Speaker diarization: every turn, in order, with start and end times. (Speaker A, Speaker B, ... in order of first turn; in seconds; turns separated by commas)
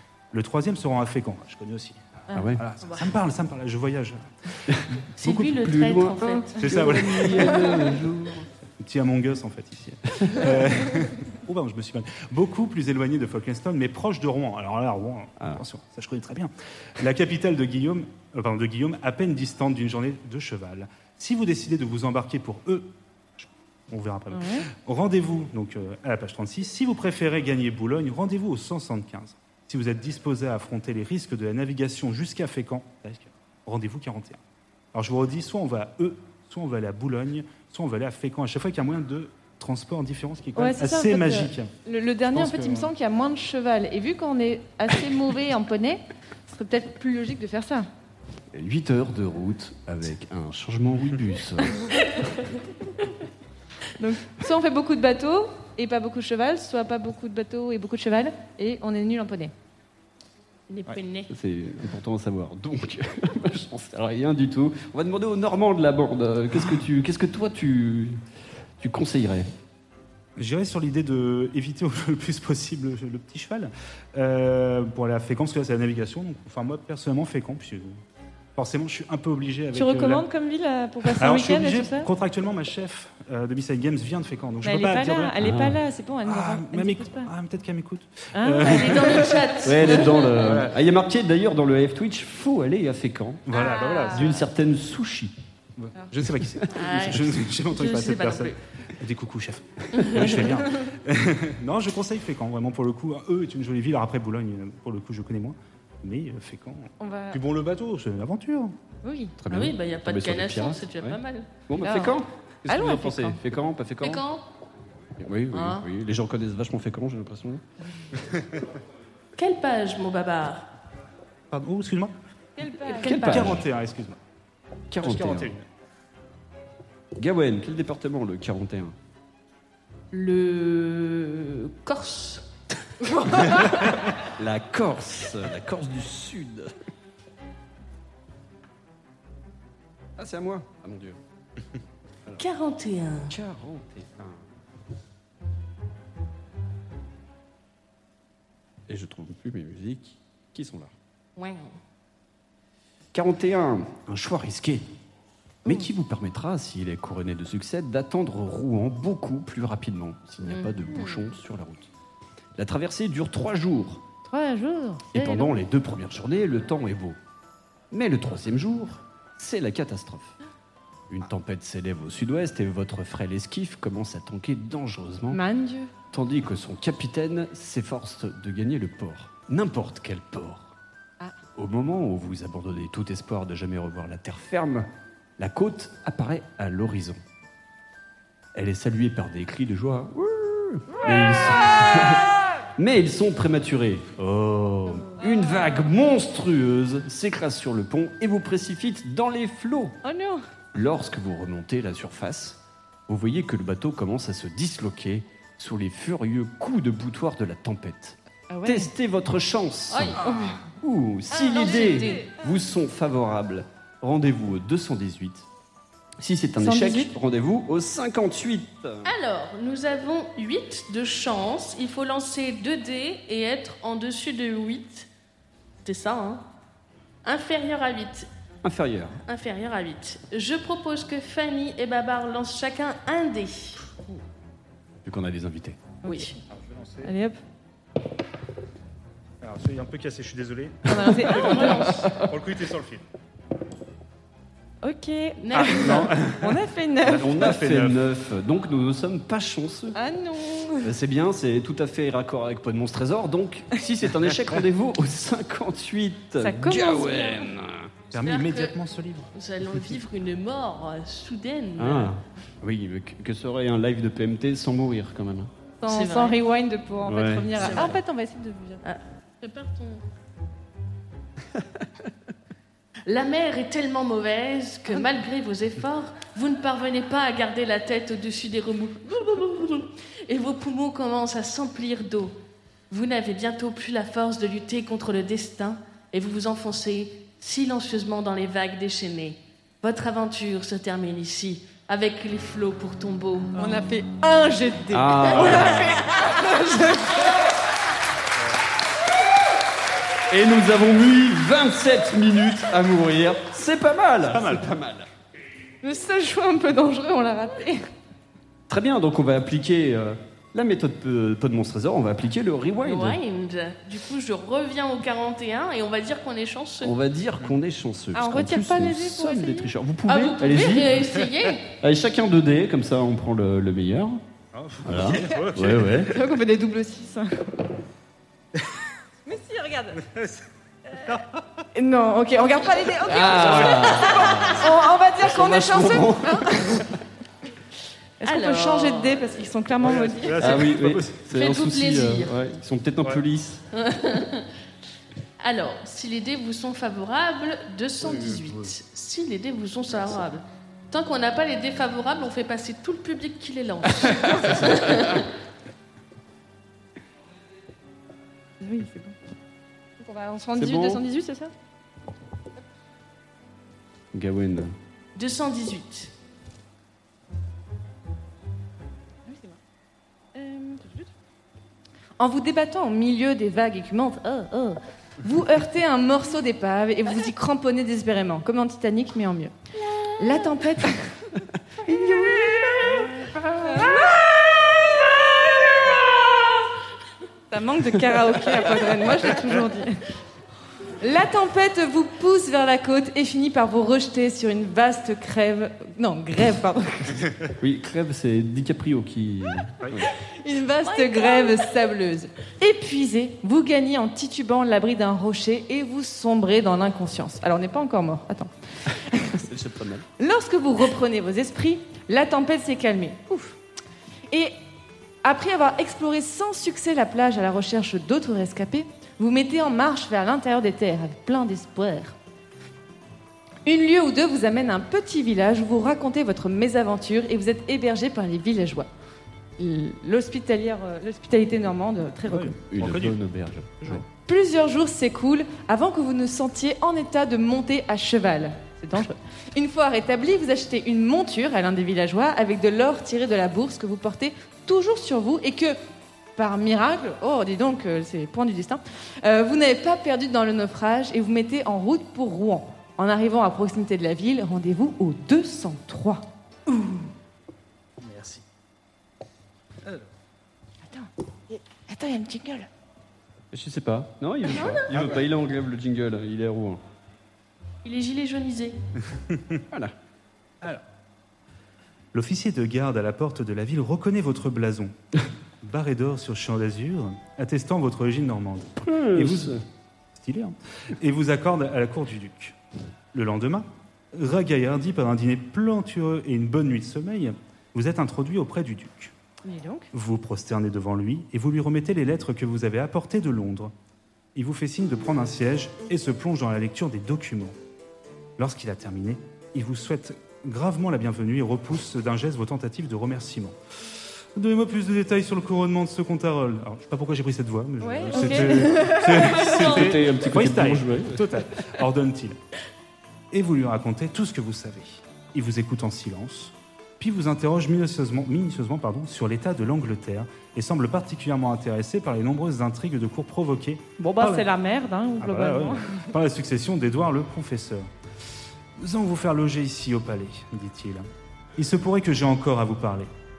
Speaker A: 0.3-4.8, Speaker B: 2.3-2.6, Speaker B: 4.7-8.5, Speaker C: 5.2-7.4, Speaker A: 6.6-7.9, Speaker A: 8.8-34.4, Speaker D: 24.3-24.7, Speaker A: 34.9-41.7, Speaker D: 40.6-47.9, Speaker A: 42.3-42.9, Speaker B: 48.5-52.0, Speaker D: 54.0-59.5, Speaker C: 60.7-61.3, Speaker B: 61.3-68.2, Speaker B: 68.8-69.5, Speaker A: 70.4-78.0, Speaker A: 78.6-80.3, Speaker D: 79.7-82.1, Speaker A: 81.1-85.5, Speaker D: 84.6-87.3, Speaker B: 85.4-85.8, Speaker A: 86.3-90.8, Speaker D: 88.3-89.4, Speaker C: 88.6-90.5, Speaker B: 89.6-93.5, Speaker A: 93.5-94.4, Speaker D: 93.5-94.4, Speaker B: 94.1-95.3, Speaker A: 95.8-108.8, Speaker C: 96.7-98.6, Speaker C: 99.9-100.5, Speaker D: 107.0-107.4, Speaker D: 109.0-109.4, Speaker B: 109.4-114.2, Speaker C: 109.5-111.5, Speaker D: 111.8-113.4, Speaker C: 114.0-114.4, Speaker B: 115.2-117.6, Speaker D: 115.5-115.8, Speaker C: 119.4-120.7, Speaker A: 121.5-122.2, Speaker D: 122.6-123.3, Speaker B: 122.9-123.7, Speaker C: 123.0-123.6, Speaker A: 123.1-124.2, Speaker B: 124.9-125.5, Speaker A: 125.0-125.7, Speaker B: 127.2-129.0, Speaker C: 130.1-132.5, Speaker C: 133.0-133.6, Speaker B: 134.2-136.7, Speaker B: 140.2-141.2, Speaker C: 142.4-143.4, Speaker B: 143.3-144.5, Speaker B: 148.9-150.9, Speaker C: 151.4-151.8, Speaker B: 153.1-154.9, Speaker B: 155.6-161.9, Speaker C: 160.4-161.2, Speaker B: 162.6-164.0, Speaker D: 164.2-165.5, Speaker B: 165.1-167.2, Speaker B: 167.9-170.3, Speaker B: 171.1-175.4, Speaker D: 175.3-175.9, Speaker B: 176.1-180.7, Speaker B: 181.6-187.2, Speaker B: 188.5-200.0, Speaker D: 200.0-200.4, Speaker B: 200.7-215.5, Speaker D: 208.5-208.9, Speaker C: 209.9-210.6, Speaker D: 210.2-210.6, Speaker D: 211.3-212.3, Speaker C: 211.4-212.3, Speaker B: 216.2-219.1, Speaker D: 216.6-217.1, Speaker C: 219.1-225.1, Speaker C: 225.8-226.4, Speaker C: 227.2-228.3, Speaker B: 228.6-229.2, Speaker C: 229.3-233.9, Speaker B: 235.0-235.8, Speaker D: 236.0-236.3, Speaker C: 236.1-236.4, Speaker A: 236.5-237.1, Speaker D: 237.0-237.4, Speaker A: 239.4-243.1, Speaker D: 240.9-242.3, Speaker C: 241.3-242.2, Speaker D: 244.8-247.5, Speaker C: 245.4-246.2, Speaker A: 245.6-248.0, Speaker B: 247.1-250.0, Speaker D: 249.9-250.9, Speaker B: 250.8-257.9, Speaker D: 256.4-257.5, Speaker A: 258.1-259.3, Speaker C: 258.1-258.8, Speaker C: 259.3-262.1, Speaker B: 261.8-265.5, Speaker D: 265.8-268.8, Speaker C: 265.9-266.4, Speaker B: 267.1-267.9, Speaker C: 267.6-268.0, Speaker C: 268.8-270.0, Speaker B: 271.6-271.9, Speaker C: 273.1-282.4, Speaker C: 282.9-293.7, Speaker D: 293.6-297.4, Speaker B: 294.9-296.3, Speaker B: 300.3-305.1, Speaker A: 304.3-304.7, Speaker D: 305.8-307.9, Speaker B: 308.7-313.2, Speaker C: 312.8-316.9, Speaker B: 316.8-321.1, Speaker D: 318.1-319.7, Speaker C: 320.1-321.8, Speaker B: 321.8-324.2, Speaker A: 324.5-326.3, Speaker B: 324.8-326.2, Speaker D: 325.9-327.6, Speaker D: 329.3-330.0, Speaker A: 330.0-331.3, Speaker D: 331.8-336.9, Speaker B: 333.0-337.0, Speaker A: 333.4-333.9, Speaker D: 338.2-340.6, Speaker C: 338.2-339.5, Speaker A: 339.8-341.2, Speaker B: 340.4-343.6, Speaker C: 341.3-342.4, Speaker C: 343.7-344.5, Speaker C: 345.4-355.3, Speaker A: 348.2-348.6, Speaker D: 358.6-359.1, Speaker D: 360.0-361.5, Speaker B: 360.6-361.0, Speaker B: 364.1-364.8, Speaker C: 365.2-366.1, Speaker D: 369.3-369.6, Speaker D: 370.4-371.1, Speaker D: 372.2-379.6, Speaker D: 380.1-381.3, Speaker B: 381.7-383.1, Speaker D: 381.9-384.2, Speaker D: 387.5-390.1, Speaker D: 391.0-397.2, Speaker B: 397.6-400.1, Speaker D: 400.2-409.4, Speaker C: 400.9-401.7, Speaker B: 409.3-410.1, Speaker D: 410.2-413.6, Speaker D: 414.3-414.6, Speaker D: 415.2-422.2, Speaker D: 423.7-428.9, Speaker D: 429.6-432.6, Speaker A: 432.3-433.2, Speaker B: 432.7-434.1, Speaker D: 434.1-445.8, Speaker D: 446.4-456.2, Speaker A: 458.0-458.4, Speaker D: 460.9-462.7, Speaker B: 463.5-466.8, Speaker C: 464.5-464.9, Speaker A: 464.9-465.2, Speaker C: 467.8-468.8, Speaker A: 472.1-474.9, Speaker A: 475.6-482.6, Speaker B: 478.8-479.6, Speaker A: 483.1-489.1, Speaker D: 489.4-489.9, Speaker A: 489.9-493.7, Speaker A: 494.4-497.6, Speaker A: 498.4-503.6, Speaker A: 504.4-512.4, Speaker D: 507.8-509.8, Speaker B: 509.1-511.4, Speaker A: 513.3-524.5, Speaker D: 524.0-526.1, Speaker A: 525.2-527.9, Speaker A: 528.8-533.1